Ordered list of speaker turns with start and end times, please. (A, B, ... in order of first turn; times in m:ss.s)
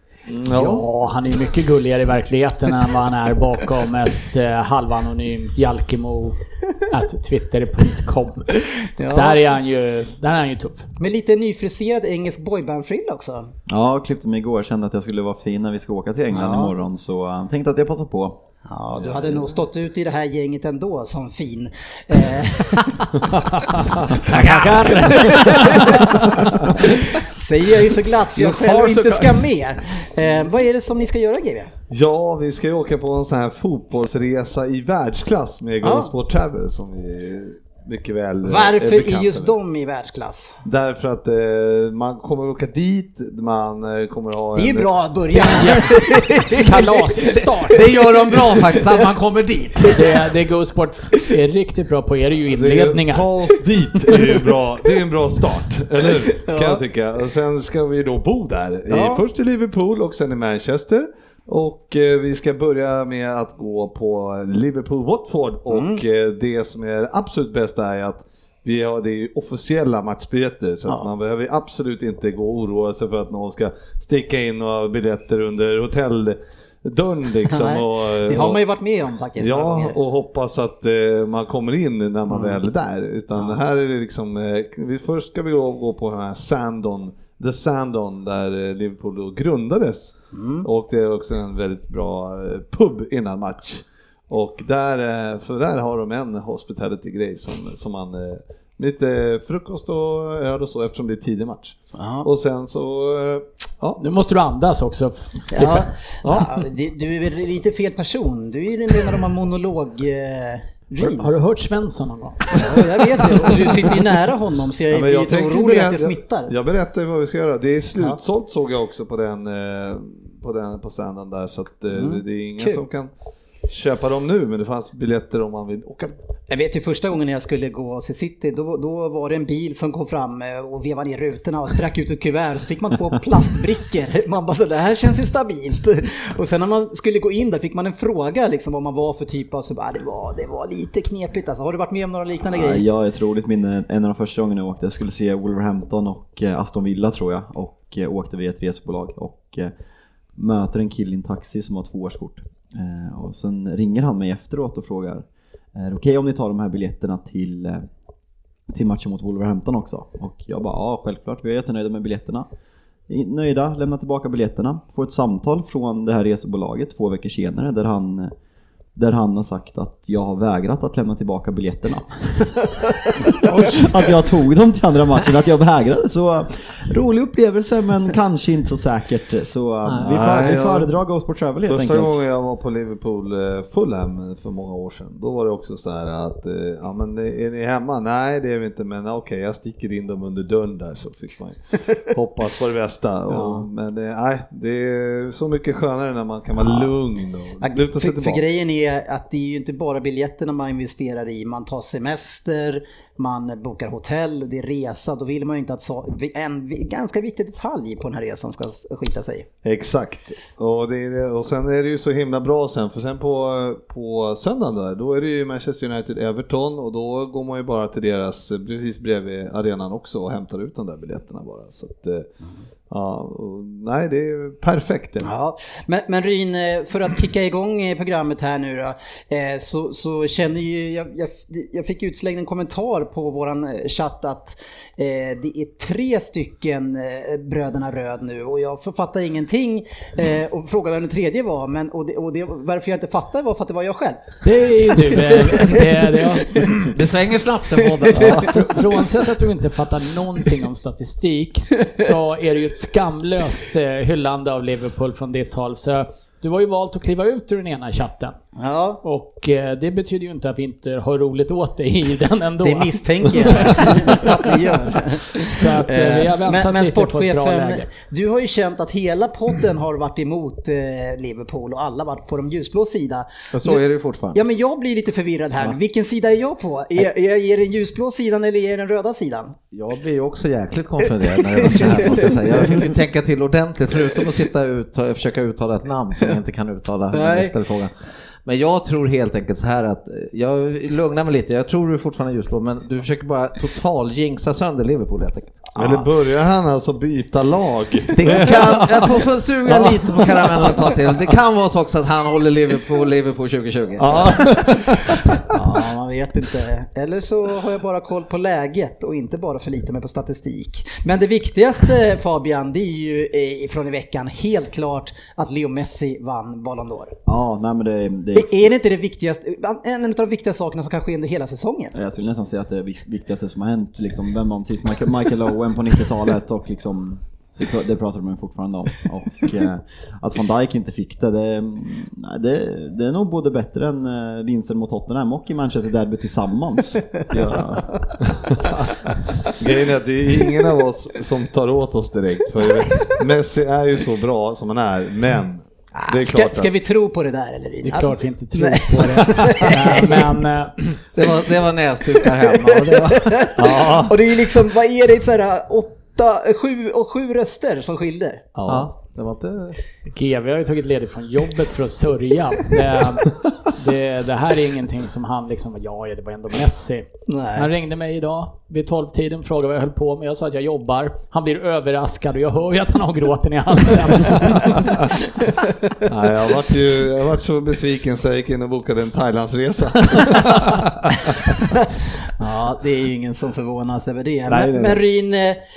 0:00.3-0:00.8 A
0:00.5-0:10.9 B
0:09.0-0:09.4 C
0:11.0-0:13.5 C
0:13.7-0:18.4 D
0:16.3-0:16.7 C
0:18.7-0:31.7 C
0:23.3-0:24.9 A
0:24.3-0:26.2 B
0:26.4-0:26.7 A
0:28.4-0:29.1 E
0:31.9-0:39.5 A
0:35.8-0:36.1 C
0:38.4-0:40.6 C
0:40.6-0:44.9 A
0:44.5-0:49.0 C
0:45.3-0:47.8 B
0:45.4-0:45.7 A
0:47.7-0:50.0 E
0:49.9-0:53.3 B
0:52.5-1:18.6 A
0:56.3-0:56.8 C
0:58.9-0:59.2 C
1:05.7-1:06.0 C
1:17.5-1:20.0 C
1:19.4-1:44.0 A
1:22.3-1:22.6 C
1:23.3-1:23.6 C
1:30.3-1:30.7 C
1:41.9-1:42.3 C
1:44.0-1:45.9 B
1:45.5-1:51.3 C
1:46.2-1:46.5 A
1:51.0-1:52.5 B
1:52.5-1:56.5 C
1:54.9-2:03.1 A
2:01.9-2:02.8 C
2:03.7-2:06.1 A
2:06.5-2:22.8 C
2:22.5-2:29.7 D
2:30.4-2:37.9 D
2:38.7-2:42.5 D
2:43.1-2:48.3 D
2:48.9-2:52.8 D
2:53.5-2:54.1 E
2:53.5-3:02.1 D
2:59.8-3:00.4 E
3:00.0-3:00.9 A
3:01.6-3:18.4 A
3:13.3-3:13.7 C
3:16.6-3:16.9 C
3:17.6-3:29.5 C
3:29.6-3:42.3 A
3:42.9-3:45.3 A
3:45.2-4:06.9 C
4:04.4-4:06.7 B
4:06.9-4:08.5 E
4:08.0-4:08.8 C
4:08.2-4:18.4 B
4:18.6-4:19.0 C
4:19.0-4:24.5 B
4:22.6-4:39.6 C
4:25.5-4:27.9 B
4:33.5-4:34.4 E
4:39.7-4:47.9 E
4:41.4-4:42.9 C
4:47.1-4:47.6 C
4:48.4-4:55.6 E
4:55.8-4:56.1 C
4:55.8-5:00.8 A
4:58.1-4:58.6 C
4:58.2-5:04.7 E
5:04.0-5:05.6 A
5:05.5-5:17.2 C
5:17.2-5:18.7 D
5:18.3-5:21.9 C
5:21.9-5:38.0 D
5:39.1-5:46.7 A
5:40.4-5:40.6 C
5:42.8-5:43.2 C
5:45.9-5:50.3 C
5:47.8-5:50.9 B
5:51.2-5:53.5 E
5:52.4-5:58.5 C
5:53.6-5:54.2 A
5:58.5-5:58.9 A
5:58.6-5:59.8 E
6:00.1-6:14.9 B
6:07.3-6:07.7 C
6:16.1-6:21.5 A
6:22.4-6:25.6 C
6:24.5-6:25.0 A